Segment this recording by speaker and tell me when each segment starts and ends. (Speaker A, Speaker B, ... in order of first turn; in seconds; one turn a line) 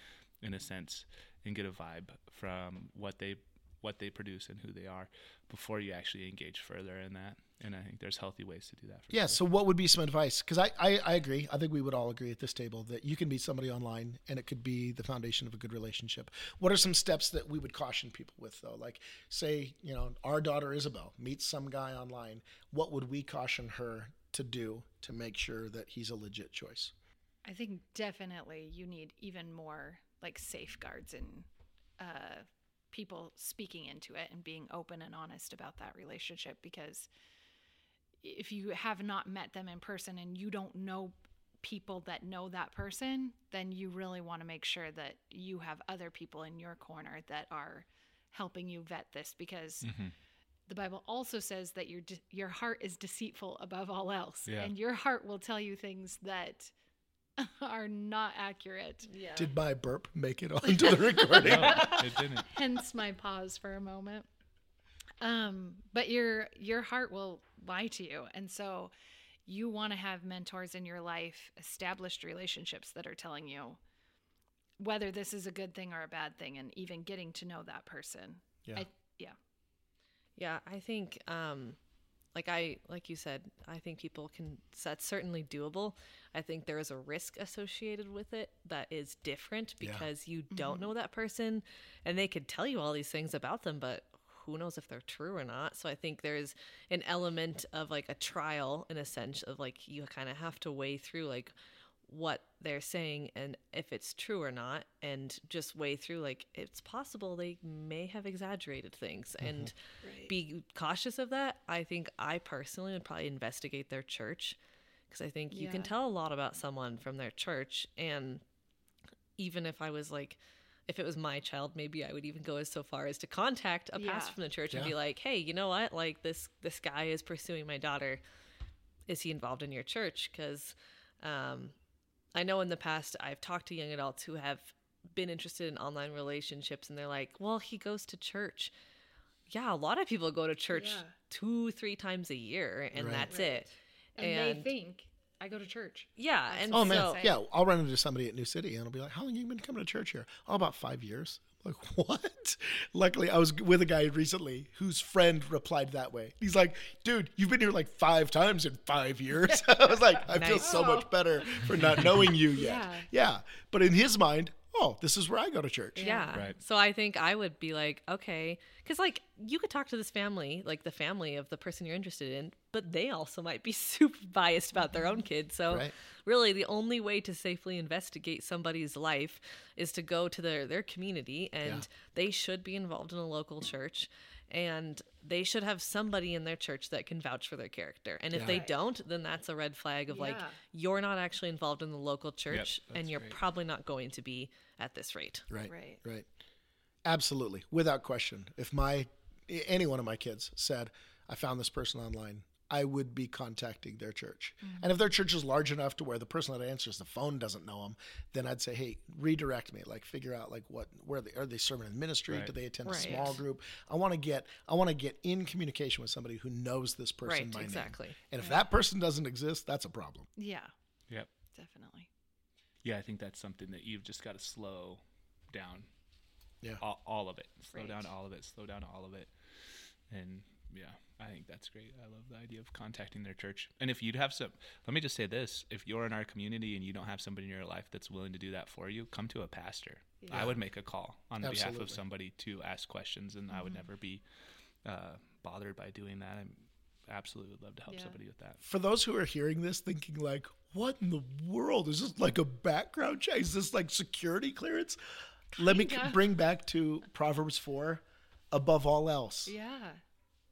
Speaker A: 0.4-9.4
Speaker B: 9.1-26.9
Speaker C: 27.4-31.5
Speaker C: 32.0-37.1
Speaker C: 38.2-49.9
Speaker A: 49.8-50.1
Speaker C: 50.7-56.7
Speaker A: 54.5-54.7
Speaker C: 57.4-59.5
Speaker B: 59.4-62.0
Speaker C: 60.8-64.3
Speaker A: 61.4-62.5
Speaker C: 65.2-68.9
Speaker C: 69.5-73.8
Speaker C: 74.8-79.4
Speaker D: 80.4-81.8
Speaker D: 82.3-101.5
Speaker B: 89.8-90.1
Speaker C: 90.5-90.9
Speaker D: 102.1-109.8
Speaker B: 109.4-109.7
Speaker C: 110.0-110.3
Speaker D: 110.3-114.6
Speaker D: 115.1-118.4
Speaker C: 115.5-115.9
Speaker D: 119.4-128.2
Speaker C: 124.0-124.4
Speaker B: 124.7-125.0
Speaker D: 129.1-131.7
Speaker D: 132.3-138.7
Speaker D: 139.5-144.7
Speaker C: 140.7-141.2
Speaker B: 142.9-143.3
Speaker C: 143.2-147.3
Speaker D: 146.2-147.2
Speaker B: 146.7-166.1
Speaker D: 160.3-160.9
Speaker C: 160.6-161.6
Speaker A: 161.8-162.2
Speaker C: 162.5-163.1
Speaker C: 166.0-166.3
Speaker D: 166.0-195.5
Speaker B: 188.3-188.6
Speaker C: 188.4-188.8
Speaker C: 190.1-190.6
Speaker A: 192.5-193.4
Speaker B: 195.5-196.3
Speaker C: 195.7-196.0
Speaker B: 197.1-220.3
Speaker C: 204.6-204.9
Speaker D: 212.9-213.3
Speaker C: 212.9-213.4
Speaker D: 217.2-218.2
Speaker C: 220.4-220.7
Speaker C: 221.5-222.1
Speaker A: 222.8-225.9
Speaker A: 226.8-244.2
Speaker C: 227.7-228.1
Speaker C: 240.2-240.5
Speaker B: 241.4-242.0
Speaker C: 243.5-243.8
Speaker A: 244.8-248.6
Speaker C: 247.9-248.2
Speaker B: 248.6-255.0
Speaker B: 255.5-259.6
Speaker C: 255.6-256.2
Speaker C: 259.5-260.0